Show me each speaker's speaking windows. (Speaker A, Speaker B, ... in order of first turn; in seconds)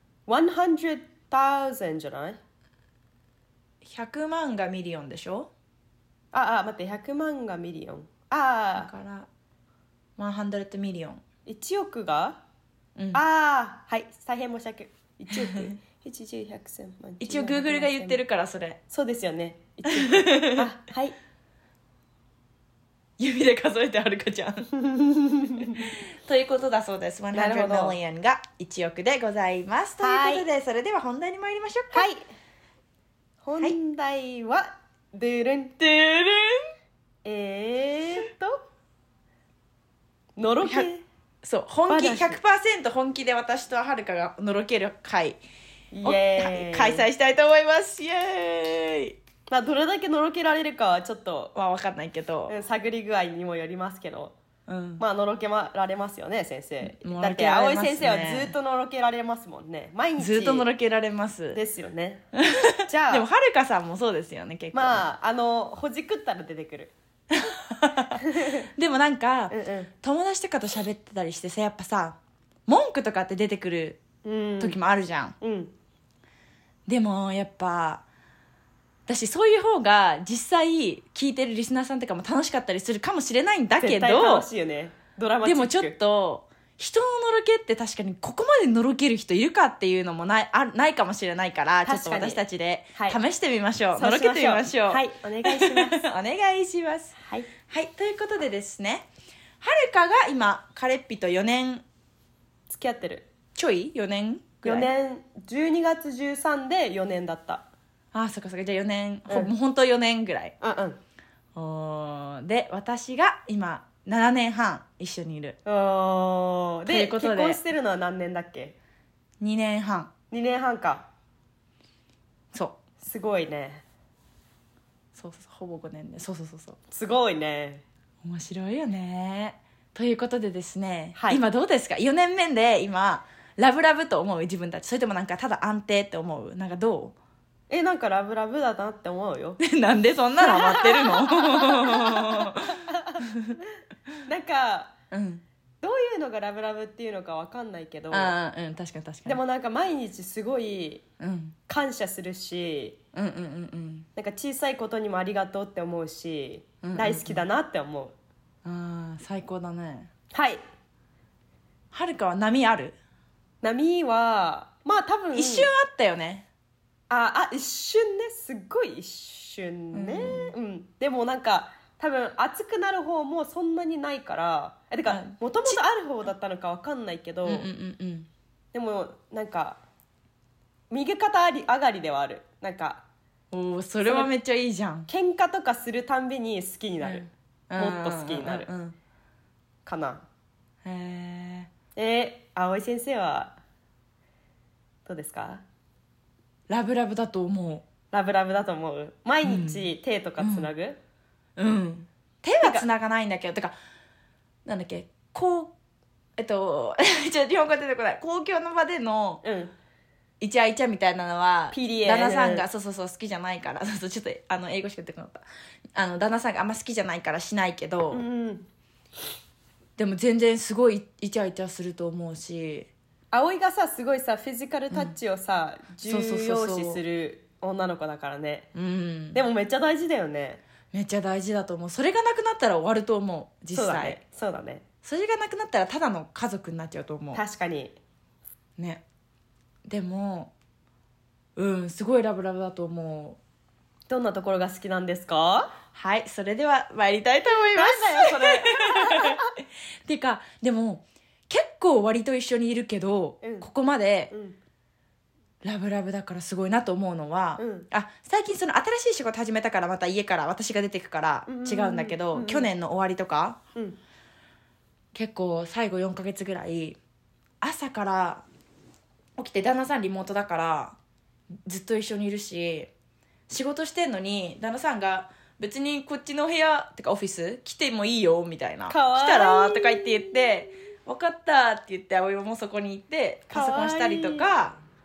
Speaker A: 0.3-2.4, 6.3-8.9, 11.4-12.4, 13.1-18.2, 18.9-21.2, 24.8-25.9, 27.3-28.0, 30.0-30.4, 31.9-32.2, 33.4-35.8, 37.2-38.6, 40.4-41.0, 41.9-42.4, 45.9-47.1, 49.5-51.5, 52.5-54.3, 55.0-60.7, 61.5-62.3, 62.8-63.3, 64.7-66.9, 68.2-68.7, 69.5-69.9, 74.2-74.8, 75.4-75.7, 83.8-86.0, 91.8-92.4, 92.9-93.2, 93.9-96.0, 97.2-97.5, 102.7-103.3, 104.6-107.7, 110.6-111.0, 115.6-118.8, 120.3-121.1, 123.0-123.8, 126.9-127.8, 131.1-131.4, 137.7-139.6, 140.4-143.2, 144.2-144.9, 145.8-148.3, 149.2-151.1, 151.7-153.0, 154.2-158.1, 160.3-160.6, 163.6-165.7, 167.1-177.7, 178.7-179.8, 180.9-183.0, 184.0-184.3, 185.1-188.7, 189.8-190.2, 191.9-193.6, 195.1-195.6, 198.1-201.0, 202.6-202.8, 209.4-209.7, 211.7-212.7, 218.1-218.7, 223.3-228.7, 229.3-230.6, 233.7-234.8, 237.3-237.9, 244.1-245.7, 247.6-249.5, 253.4-253.7, 254.3-254.6, 257.6-257.9, 261.5-262.7, 278.9-280.7, 283.5-284.5
Speaker B: 3.8-5.5, 8.8-9.3, 10.2-11.2, 15.3-15.8, 17.2-18.8, 19.9-20.7, 23.2-24.7, 25.8-32.1, 35.8-36.6, 40.6-40.9, 41.4-45.4, 46.0-49.2, 51.5-52.5, 54.7-55.0, 56.8-58.5, 60.2-61.6, 62.3-65.0, 67.3-74.0, 74.6-75.3, 76.9-78.0, 79.1-84.5, 85.4-97.2, 97.7-99.1, 99.6-101.8, 103.5-104.9, 108.1-110.5, 111.5-115.6, 116.9-117.6, 119.4-120.1, 122.5-122.8, 125.1-126.8, 128.2-137.1, 139.6-143.6, 145.1-145.4, 148.1-149.4, 151.2-151.6, 153.1-154.1, 156.8-157.4, 158.6-160.1, 161.9-162.9, 165.3-166.5, 169.9-170.5, 175.1-175.8, 177.4-178.3, 183.5-185.1, 187.0-188.9, 190.8-191.7, 196.7-197.8, 199.4-199.8, 200.4-200.7, 201.6-203.7, 204.7-205.7, 206.4-209.4, 210.4-218.2, 220.0-222.9, 226.1-227.0, 228.7-229.4, 230.9-234.2, 235.0-237.4, 238.8-239.0, 239.8-240.5, 241.6-243.4, 245.9-249.4, 250.1-254.3, 255.6-263.6, 265.1-267.0, 267.6-268.4, 269.4-271.0, 271.6-272.9, 273.5-284.8